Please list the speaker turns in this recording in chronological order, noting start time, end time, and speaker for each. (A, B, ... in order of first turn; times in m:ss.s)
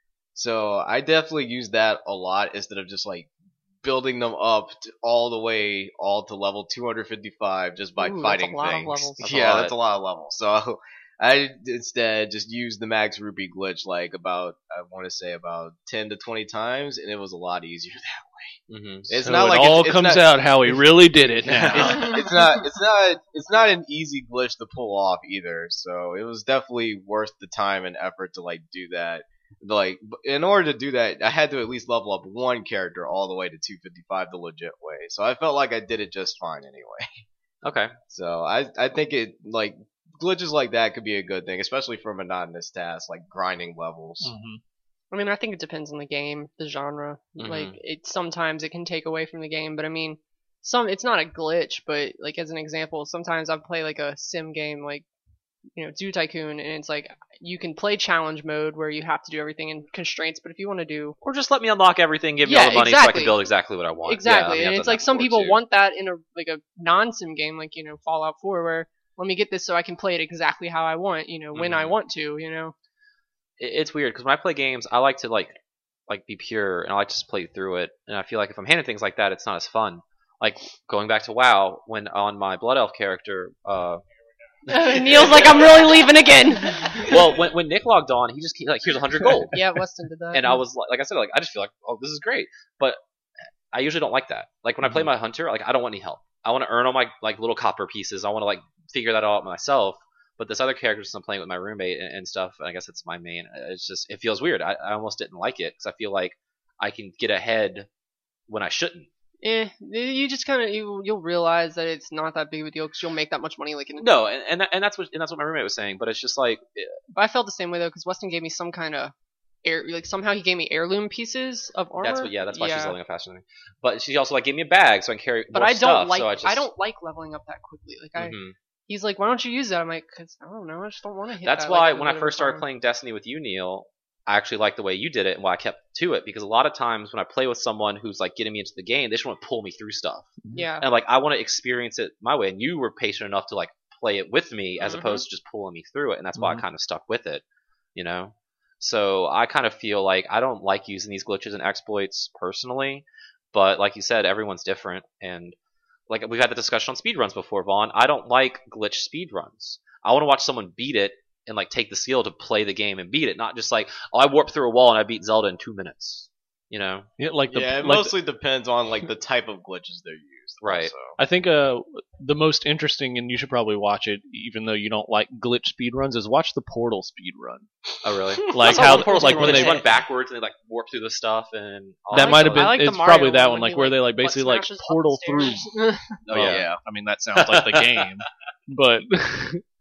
0:00.4-0:03.3 A
0:03.8-0:20.8 A
0:08.0-0:09.2 B
0:09.2-0:09.8 C
0:18.7-0:19.1 C
0:19.2-0:22.2 D
0:21.4-0:37.2 A
0:37.6-0:38.0 C
0:38.1-0:44.3 A
0:44.2-0:44.6 D
0:45.1-0:55.0 B
0:47.4-0:47.8 C
0:55.8-1:01.2 B
1:01.2-1:05.6 C
1:02.4-1:03.4 B
1:04.0-1:12.7 B
1:11.5-1:12.0 C
1:13.6-1:24.0 C
1:24.7-1:27.2 B
1:24.7-1:25.8 C
1:27.0-1:29.6 C
1:29.5-1:30.6 B
1:30.3-1:33.0 C
1:33.7-1:47.9 C
1:34.8-1:35.1 D
1:48.5-1:49.1 C
1:49.4-1:54.1 B
1:54.0-1:57.0 C
1:57.1-2:03.0 B
2:02.0-2:06.6 C
2:05.5-2:08.4 B
2:08.2-2:08.6 C
2:08.9-2:12.6 B
2:11.4-2:27.4 C
2:20.5-2:20.9 B
2:24.8-2:25.2 B
2:26.4-2:26.6 D
2:28.0-2:35.6 C
2:36.1-2:47.1 C
2:47.2-2:48.1 D
2:47.5-2:51.2 A
2:50.6-2:50.9 C
2:51.2-2:57.7 D
2:58.0-3:02.8 C
2:58.4-2:59.8 D
2:58.6-2:59.8 B
3:02.1-3:05.7 D
3:02.1-3:06.1 B
3:06.3-3:06.7 C
3:06.3-3:06.8 A
3:06.3-3:09.6 D
3:07.4-3:08.1 C